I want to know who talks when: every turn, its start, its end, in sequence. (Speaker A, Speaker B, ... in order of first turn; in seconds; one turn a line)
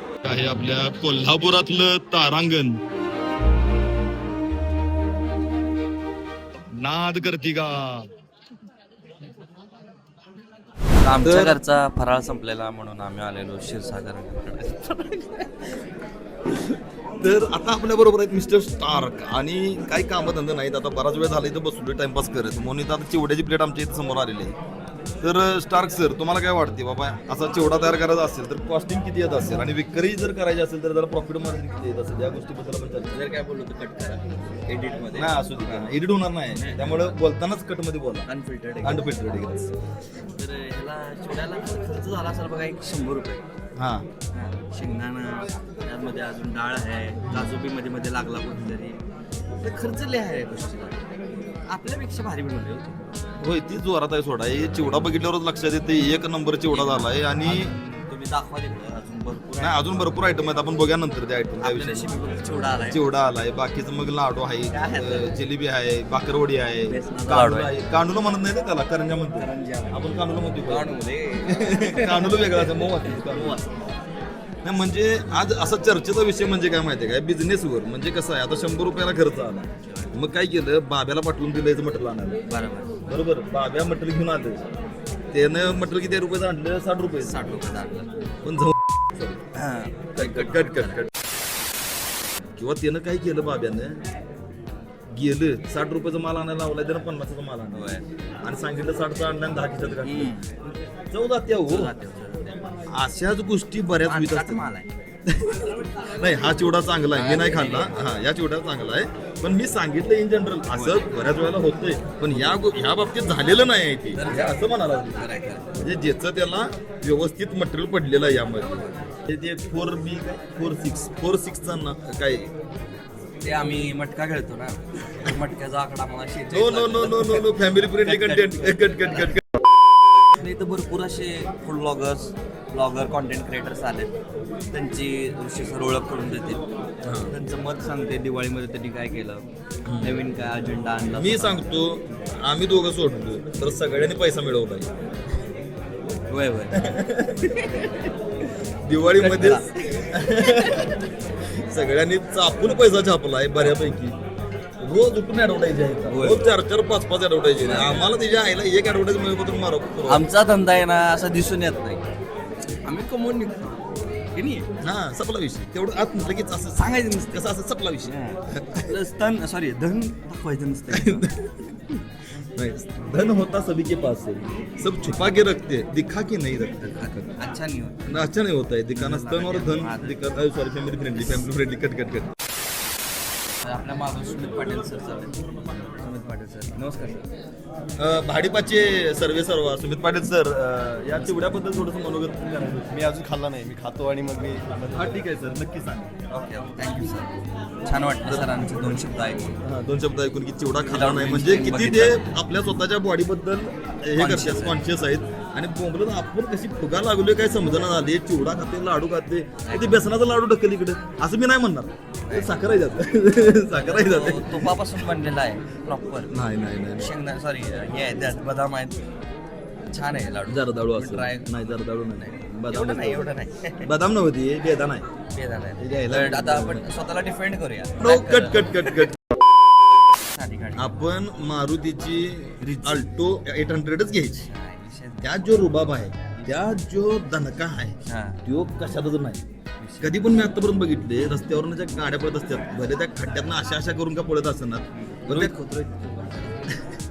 Speaker A: 0.2-2.8
Speaker A: 6.8-8.1
Speaker B: 11.0-15.5
Speaker A: 11.2-11.6
Speaker A: 17.2-24.5
Speaker A: 25.2-33.1
Speaker B: 33.1-36.0
Speaker A: 35.1-38.3
Speaker B: 36.5-37.2
Speaker B: 38.3-39.2
Speaker A: 38.8-39.7
Speaker B: 40.4-43.4
Speaker A: 43.8-44.1
Speaker B: 44.3-49.0
Speaker A: 47.3-47.5
Speaker B: 49.6-51.0
Speaker B: 51.7-53.0
Speaker A: 53.4-57.7
Speaker B: 54.5-55.1
Speaker B: 56.7-60.5
Speaker A: 59.6-62.1
Speaker B: 61.6-63.0
Speaker A: 62.8-70.9
Speaker B: 64.7-65.4
Speaker B: 66.9-67.7
Speaker B: 69.4-73.7
Speaker A: 71.5-73.6
Speaker A: 74.6-82.4
Speaker B: 82.5-82.9
Speaker A: 83.0-84.6
Speaker A: 85.3-87.5
Speaker B: 87.2-88.1
Speaker A: 88.4-89.4
Speaker B: 89.5-91.0
Speaker A: 90.2-91.1
Speaker A: 92.6-94.0
Speaker A: 95.1-97.8
Speaker B: 97.7-98.0
Speaker A: 98.4-100.3
Speaker B: 100.0-100.6
Speaker A: 101.1-101.9
Speaker B: 101.6-102.6
Speaker A: 102.9-104.6
Speaker B: 104.0-104.9
Speaker A: 105.3-105.6
Speaker A: 106.2-115.2
Speaker B: 107.1-108.0
Speaker B: 110.7-111.2
Speaker B: 112.2-112.6
Speaker B: 114.2-115.7
Speaker A: 115.8-122.5
Speaker B: 123.4-129.3
Speaker A: 126.5-129.4
Speaker B: 130.3-134.1
Speaker B: 134.7-136.6
Speaker A: 137.1-137.3
Speaker B: 137.3-139.4
Speaker A: 139.9-140.2
Speaker B: 140.0-141.6
Speaker A: 141.1-144.9
Speaker B: 146.3-146.8
Speaker A: 146.8-147.4
Speaker B: 147.4-148.1
Speaker A: 148.8-154.2
Speaker B: 149.2-149.7
Speaker A: 154.8-160.2
Speaker B: 156.1-156.4
Speaker B: 157.6-158.1
Speaker B: 160.1-162.1
Speaker B: 162.8-163.8
Speaker B: 164.3-164.7
Speaker A: 164.8-168.9
Speaker B: 166.5-171.2
Speaker A: 170.9-171.9
Speaker A: 172.6-177.3
Speaker B: 176.8-178.1
Speaker A: 178.1-182.3
Speaker B: 178.9-180.2
Speaker B: 181.2-181.4
Speaker B: 183.6-187.2
Speaker A: 188.0-192.9
Speaker C: 192.9-195.2
Speaker A: 194.9-196.1
Speaker B: 196.3-197.3
Speaker B: 197.8-199.6
Speaker A: 199.6-214.8
Speaker B: 200.8-202.3
Speaker B: 204.2-204.8
Speaker B: 209.6-209.9
Speaker B: 212.2-212.6
Speaker B: 213.8-216.3
Speaker A: 216.3-217.1
Speaker B: 216.9-219.0
Speaker B: 219.9-223.9
Speaker A: 220.4-223.3
Speaker A: 223.8-225.1
Speaker B: 225.3-229.1
Speaker A: 225.8-226.9
Speaker A: 228.0-229.2
Speaker B: 230.3-231.0
Speaker A: 230.8-234.4
Speaker B: 232.6-233.0
Speaker B: 234.4-235.8
Speaker A: 235.2-239.4
Speaker B: 236.4-236.7
Speaker B: 238.1-238.4
Speaker B: 239.8-240.1
Speaker A: 240.0-245.6
Speaker B: 244.9-246.6